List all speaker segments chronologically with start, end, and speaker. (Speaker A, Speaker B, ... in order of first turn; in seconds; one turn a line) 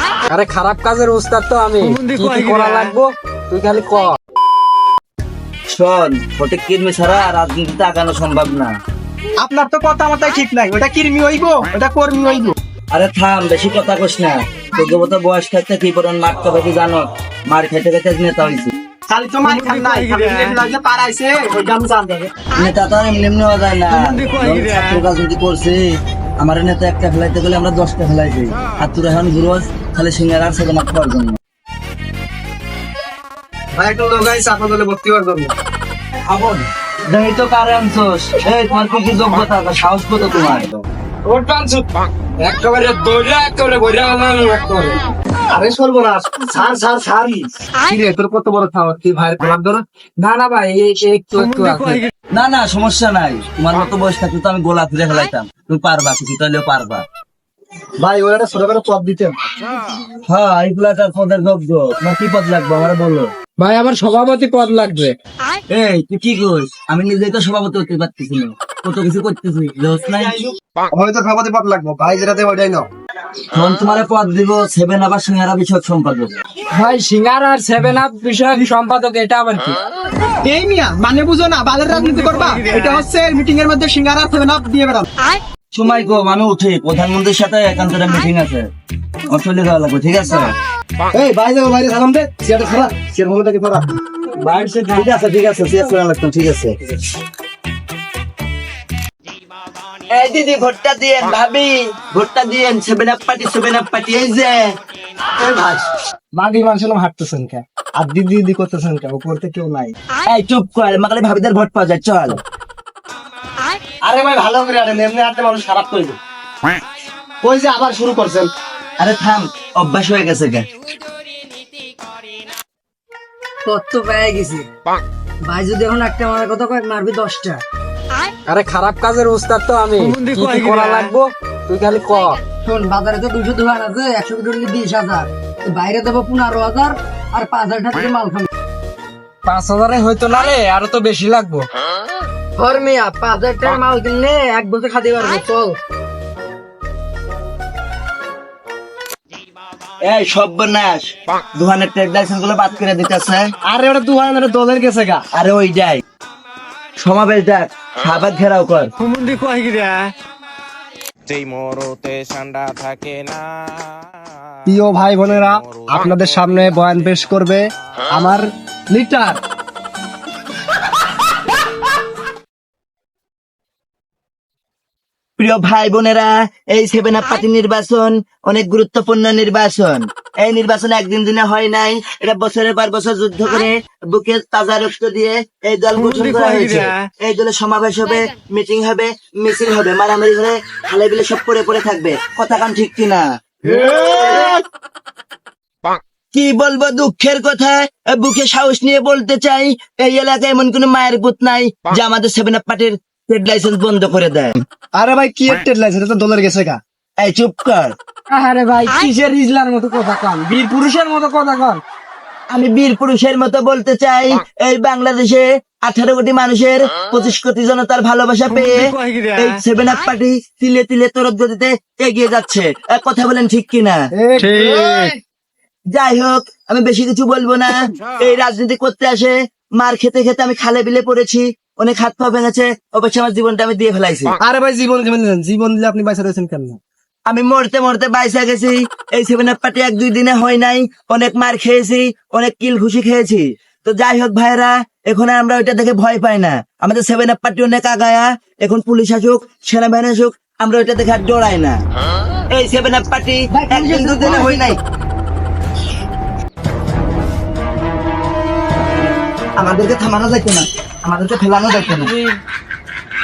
Speaker A: 0.3-4.2
Speaker B: 1.9-2.9
Speaker C: 5.7-8.8
Speaker D: 9.4-12.6
Speaker C: 12.9-18.7
Speaker D: 19.1-22.3
Speaker B: 19.4-20.6
Speaker C: 22.5-25.8
Speaker B: 23.9-25.0
Speaker C: 26.4-31.4
Speaker D: 33.7-35.5
Speaker C: 36.3-40.8
Speaker A: 41.2-41.9
Speaker A: 42.4-45.0
Speaker D: 45.5-49.6
Speaker A: 49.3-52.1
Speaker C: 52.3-57.0
Speaker D: 58.0-59.5
Speaker C: 60.2-63.3
Speaker A: 63.6-65.2
Speaker C: 65.7-70.5
Speaker D: 70.9-72.9
Speaker C: 73.5-76.3
Speaker A: 76.7-79.8
Speaker D: 80.4-85.1
Speaker B: 82.1-83.0
Speaker C: 85.7-88.7
Speaker C: 89.3-90.5
Speaker D: 91.1-93.9
Speaker C: 94.4-96.8
Speaker C: 100.1-104.7
Speaker D: 105.4-110.0
Speaker C: 110.3-112.4
Speaker D: 114.0-116.2
Speaker D: 117.4-118.5
Speaker C: 119.0-120.7
Speaker E: 123.7-124.7
Speaker E: 125.5-127.6
Speaker A: 128.5-132.4
Speaker B: 130.0-131.1
Speaker E: 132.6-138.5
Speaker A: 139.5-141.7
Speaker E: 142.6-145.8
Speaker C: 150.1-153.4
Speaker D: 153.7-155.2
Speaker C: 155.3-156.0
Speaker C: 157.0-158.9
Speaker B: 159.0-160.1
Speaker B: 161.3-163.5
Speaker D: 164.7-169.4
Speaker C: 175.4-194.6
Speaker B: 186.0-187.1
Speaker C: 196.3-204.6
Speaker D: 204.9-206.8
Speaker C: 207.2-208.0
Speaker A: 208.3-211.8
Speaker C: 212.5-224.0
Speaker B: 218.5-219.6
Speaker D: 224.2-225.2
Speaker A: 224.5-225.1
Speaker C: 225.9-234.3
Speaker D: 234.4-236.8
Speaker C: 237.3-251.8
Speaker C: 252.5-254.8
Speaker E: 253.9-254.6
Speaker C: 259.6-262.1
Speaker A: 262.1-262.4